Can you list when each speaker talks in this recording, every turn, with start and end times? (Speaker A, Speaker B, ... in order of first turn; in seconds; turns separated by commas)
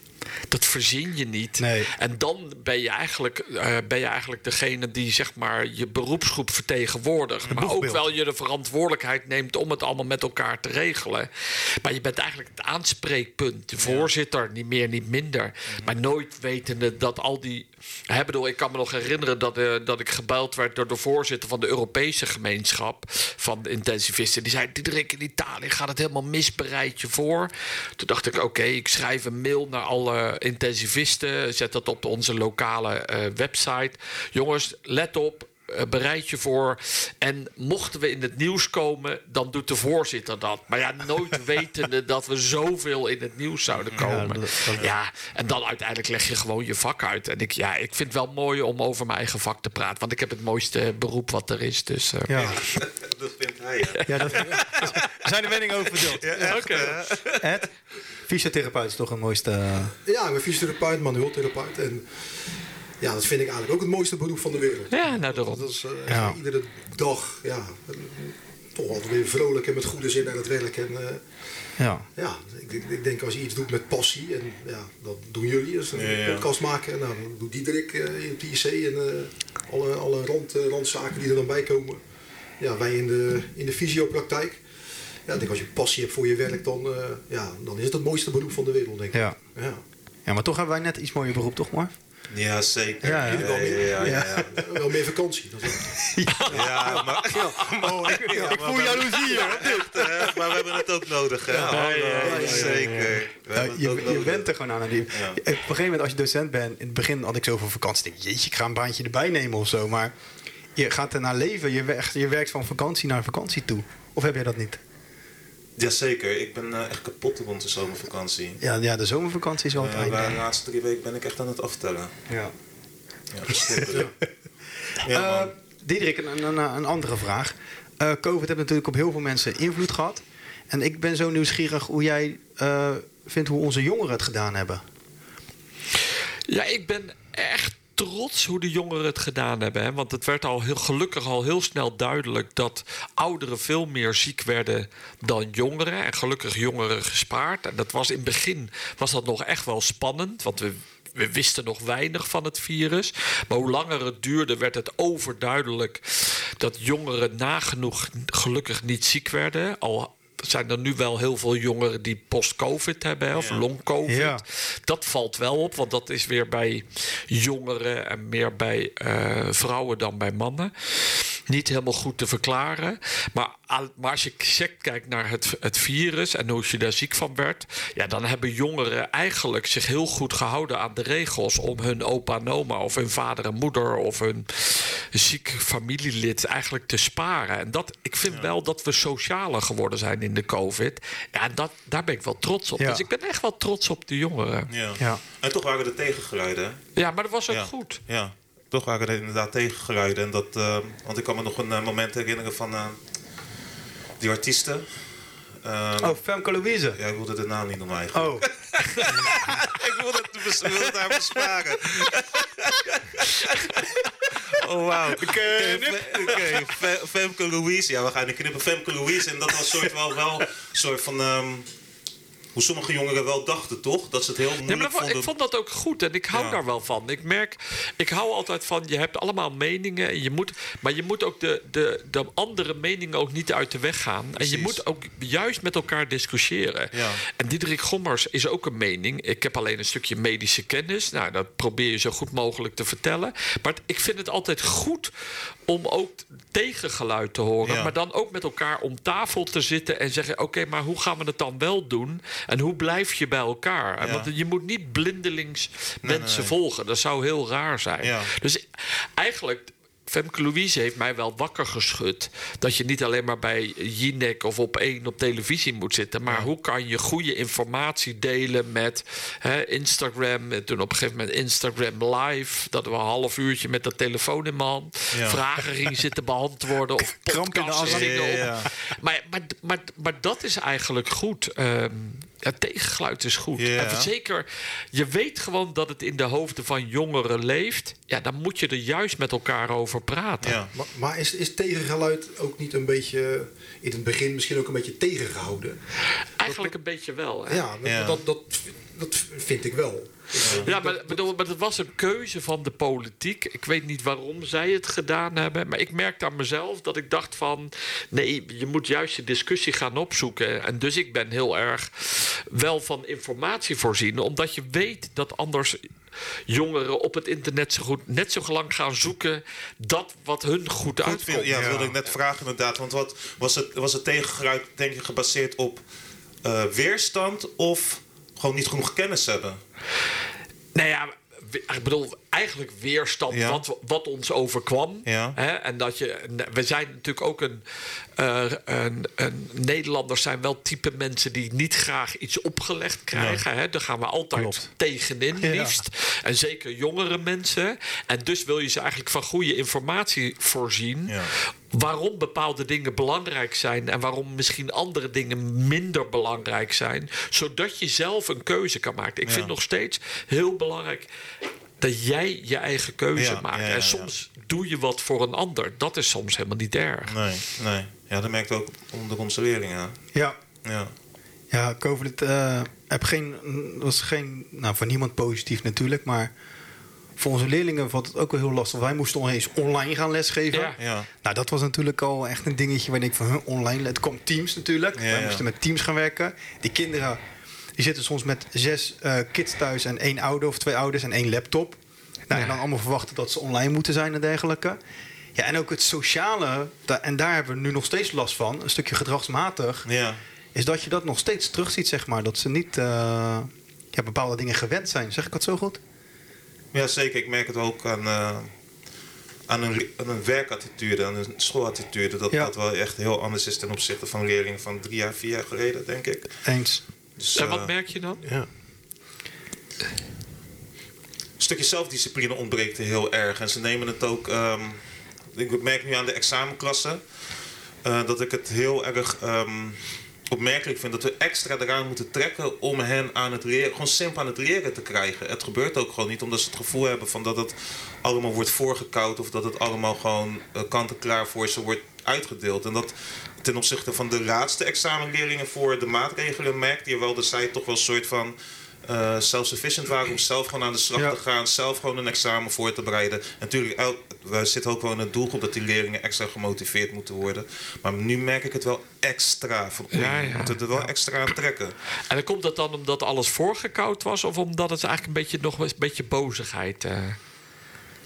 Speaker A: 0.5-52.7, Speaker B: 1.6-1.9, Speaker B: 7.5-8.0, Speaker C: 13.8-14.1, Speaker C: 15.7-15.9, Speaker C: 43.8-44.9, Speaker B: 44.0-44.9, Speaker B: 52.3-52.6, Speaker C: 52.4-54.9, Speaker A: 54.0-54.8, Speaker B: 54.0-56.8, Speaker C: 55.9-57.5, Speaker A: 56.4-57.0, Speaker B: 57.4-57.7, Speaker B: 58.2-59.9, Speaker D: 60.0-82.0, Speaker A: 64.9-65.7, Speaker B: 66.1-66.4, Speaker B: 71.8-72.0, Speaker C: 75.9-76.5, Speaker D: 82.6-84.7, Speaker D: 85.2-89.8, Speaker B: 89.1-89.4, Speaker B: 90.2-91.9, Speaker C: 92.3-94.6, Speaker B: 93.0-94.4, Speaker D: 93.0-99.6, Speaker B: 96.0-97.0, Speaker A: 96.3-96.5, Speaker C: 96.5-104.5, Speaker B: 97.6-100.4, Speaker D: 101.5-102.8, Speaker A: 101.6-103.2, Speaker B: 102.2-102.8, Speaker B: 103.5-110.1, Speaker C: 105.1-105.4, Speaker B: 110.7-114.8, Speaker C: 115.8-118.6, Speaker B: 118.6-120.4, Speaker C: 119.8-122.1, Speaker C: 123.3-124.1, Speaker B: 123.5-124.1, Speaker C: 125.0-125.5, Speaker B: 125.1-134.8, Speaker A: 136.5-194.7, Speaker C: 163.3-163.6, Speaker B: 164.1-164.4, Speaker B: 192.8-193.0, Speaker C: 194.7-196.9, Speaker A: 196.9-198.0, Speaker C: 197.5-202.9, Speaker C: 204.2-206.2, Speaker B: 206.0-207.0, Speaker C: 206.9-221.7, Speaker B: 208.1-208.5, Speaker B: 215.2-216.8, Speaker B: 219.6-219.9, Speaker C: 222.5-225.3, Speaker A: 224.6-245.1, Speaker C: 226.3-226.6, Speaker C: 234.4-234.8, Speaker C: 236.9-237.2, Speaker A: 245.7-290.6, Speaker C: 247.6-247.9, Speaker C: 254.0-254.3, Speaker C: 256.0-256.5, Speaker C: 258.0-258.3, Speaker C: 275.1-275.4, Speaker B: 277.1-278.5, Speaker C: 277.8-278.7, Speaker C: 283.6-284.1, Speaker C: 290.4-290.7, Speaker D: 290.7-295.8, Speaker A: 296.4-297.6, Speaker D: 296.4-296.7, Speaker D: 297.5-301.2, Speaker C: 297.8-298.2, Speaker C: 300.4-300.7, Speaker A: 300.6-321.6, Speaker C: 321.0-325.8, Speaker B: 321.5-321.9, Speaker C: 326.4-329.6, Speaker A: 330.7-337.6, Speaker C: 333.3-333.6, Speaker C: 335.1-335.4, Speaker A: 338.2-361.1, Speaker C: 343.1-343.4, Speaker B: 344.3-344.7, Speaker B: 345.4-345.8, Speaker C: 359.2-359.5, Speaker A: 361.8-367.2, Speaker C: 363.1-364.1, Speaker C: 367.1-370.0, Speaker C: 370.6-370.9, Speaker B: 371.5-376.3, Speaker B: 377.2-387.2, Speaker A: 380.5-380.8, Speaker C: 380.8-381.1, Speaker C: 385.0-385.4, Speaker B: 387.8-394.8, Speaker A: 392.3-392.6, Speaker B: 395.3-399.9, Speaker C: 399.9-400.2, Speaker B: 400.5-405.8, Speaker C: 406.7-408.5, Speaker C: 409.5-416.4, Speaker B: 416.4-416.8, Speaker C: 417.1-417.7, Speaker A: 417.3-418.2, Speaker D: 418.2-418.5, Speaker C: 421.4-427.1, Speaker C: 427.8-461.7, Speaker A: 459.9-460.6, Speaker A: 462.1-467.2